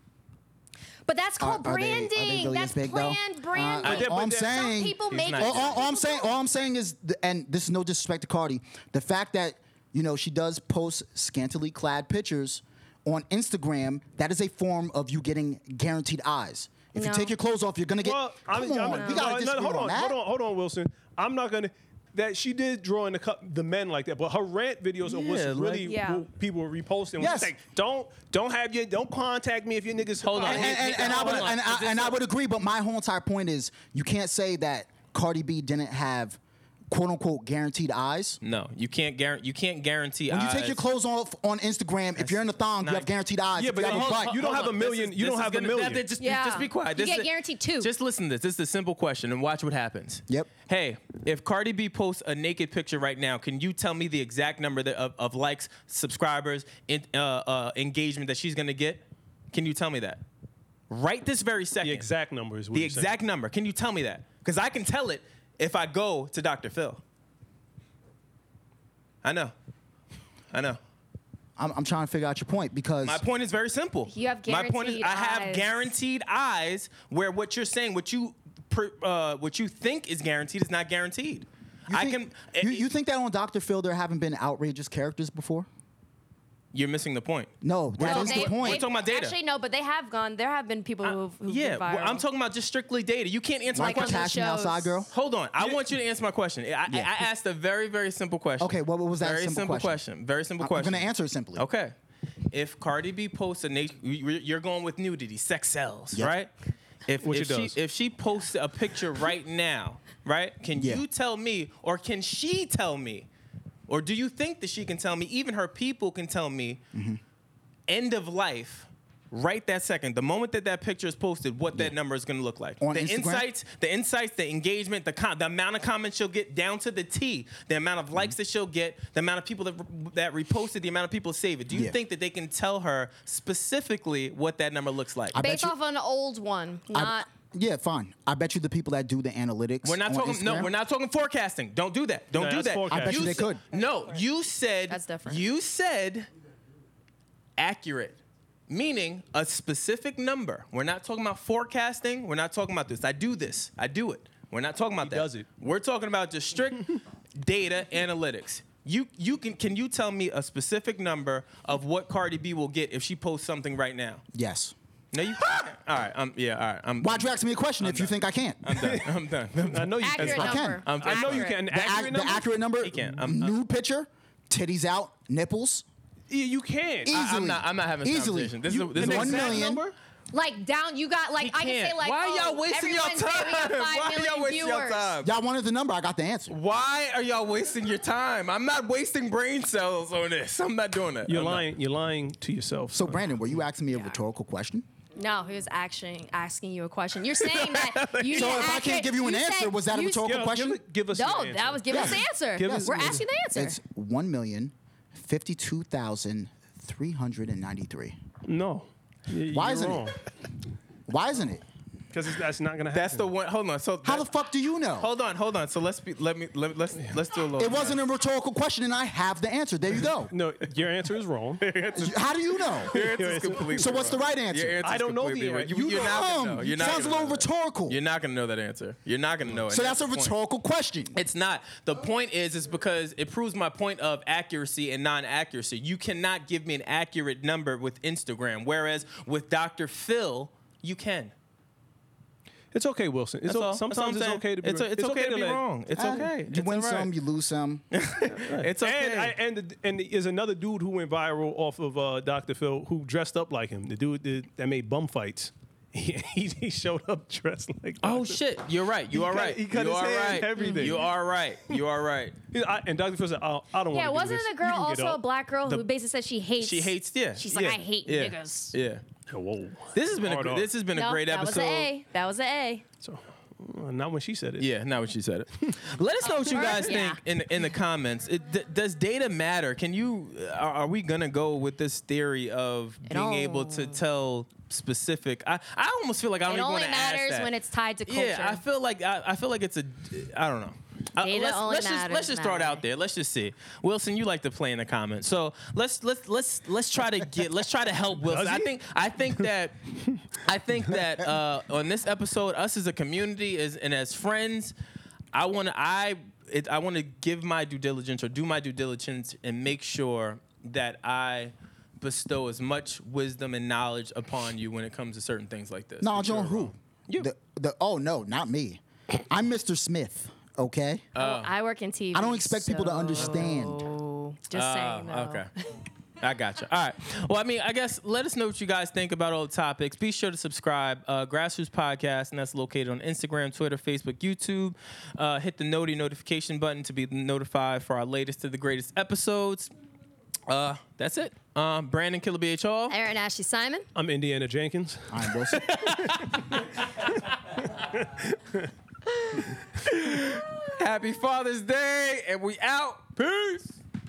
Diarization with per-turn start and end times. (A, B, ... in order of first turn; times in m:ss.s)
0:01.1-0:06.4 A
0:01.4-0:20.2 B
0:03.8-0:04.2 C
0:03.9-0:04.5 D
0:05.1-0:05.8 C
0:17.0-0:17.3 A
0:18.0-0:31.6 D
0:18.8-0:19.3 A
0:25.0-0:25.9 C
0:25.8-0:26.2 A
0:27.2-0:27.6 B
0:30.2-0:32.2 C
0:30.4-0:38.4 B
0:38.4-0:40.8 C
0:40.3-0:44.4 B
0:42.2-0:43.1 C
0:43.6-0:46.0 D
0:43.8-1:00.2 C
0:46.2-0:47.9 A
1:00.9-1:02.1 C
1:01.8-1:03.1 D
1:02.7-1:07.0 C
1:09.2-1:09.5 C
1:10.5-1:10.8 C
1:11.6-1:13.2 B
1:13.0-1:22.8 C
1:14.1-1:15.9 A
1:21.9-1:25.7 B
1:26.7-1:29.4 C
1:27.6-1:28.8 B
1:28.0-1:32.2 A
1:31.0-1:34.4 C
1:33.7-1:35.1 B
1:33.8-1:35.0 A
1:35.1-1:41.9 C
1:36.9-1:37.2 B
1:38.6-1:40.0 B
1:40.6-1:41.6 B
1:42.5-1:46.5 C
1:47.1-1:53.3 C
1:47.2-1:47.8 D
1:50.8-1:51.0 B
1:53.9-1:56.8 C
1:56.9-1:57.2 B
1:57.9-2:15.4 C
2:02.8-2:03.5 B
2:15.3-2:15.7 B
2:15.4-2:17.3 A
2:16.9-2:20.7 B
2:19.8-2:26.3 C
2:22.3-2:23.5 D
2:22.9-2:23.6 B
2:24.9-2:25.4 A
2:27.6-2:44.2 C
2:35.0-2:35.5 D
2:44.3-2:44.7 B
2:45.1-2:51.5 C
2:47.0-2:48.8 B
2:48.8-2:52.6 D
2:50.0-2:51.7 A
2:50.2-2:50.8 B
2:51.7-2:55.8 B
2:52.8-2:53.6 C
2:56.3-2:57.2 D
2:57.0-2:59.8 B
2:57.1-2:59.7 C
2:58.9-3:00.0 D
3:00.3-3:05.1 A
3:01.4-3:05.3 C
3:05.2-3:06.6 B
3:06.5-3:11.7 C
3:11.3-3:13.4 D
3:12.9-3:14.9 B
3:13.9-3:14.2 A
3:15.2-3:20.4 A
3:17.8-3:18.4 C
3:18.3-3:20.8 B
3:20.2-3:23.2 D
3:21.1-3:23.8 A
3:21.9-3:28.2 B
3:28.5-3:30.2 D
3:29.5-3:30.1 B
3:31.1-3:31.6 B
3:32.1-3:33.3 D
3:32.9-3:34.3 C
3:34.0-3:35.1 B
3:35.0-3:38.0 C
3:37.6-3:40.3 B
3:40.3-3:42.1 D
3:41.6-3:42.1 C
3:42.0-3:43.0 B
3:42.8-3:44.2 D
3:42.9-3:50.3 C
3:43.8-3:44.8 B
3:44.8-3:46.9 D
3:45.7-3:48.0 B
3:49.7-3:51.2 B
3:51.2-4:01.3 C
4:02.7-4:06.3 D
4:03.4-4:07.1 C
4:06.0-4:07.9 B
4:07.9-4:09.3 C
4:08.2-4:18.4 D
4:18.0-4:22.4 C
4:19.1-4:21.1 D
4:20.6-4:21.0 A
4:22.5-4:25.2 D
4:23.9-4:28.8 A
4:26.6-4:29.0 C
4:29.3-4:30.7 D
4:29.9-4:31.9 C
4:30.9-4:32.8 A
4:33.0-4:34.7 D
4:34.6-4:47.5 C
4:36.2-4:37.2 A
4:43.1-4:44.0 A
4:46.5-4:48.6 A
4:48.1-4:59.8 C
4:51.2-4:52.8 A
4:58.2-4:58.7 D
5:00.3-5:04.7 C
5:05.3-5:17.3 C
5:16.0-5:21.1 B
5:21.2-5:21.5 C
5:21.2-5:25.7 A
5:22.1-5:23.8 B
5:23.2-5:23.5 C
5:24.5-5:25.5 C
5:26.2-5:39.7 C
5:40.5-5:43.0 C
5:42.9-5:43.9 A
5:44.0-5:45.1 D
5:45.1-5:45.7 B
5:45.5-5:47.1 C
5:46.2-5:46.4 D
5:47.8-5:48.7 D
5:49.3-5:53.8 C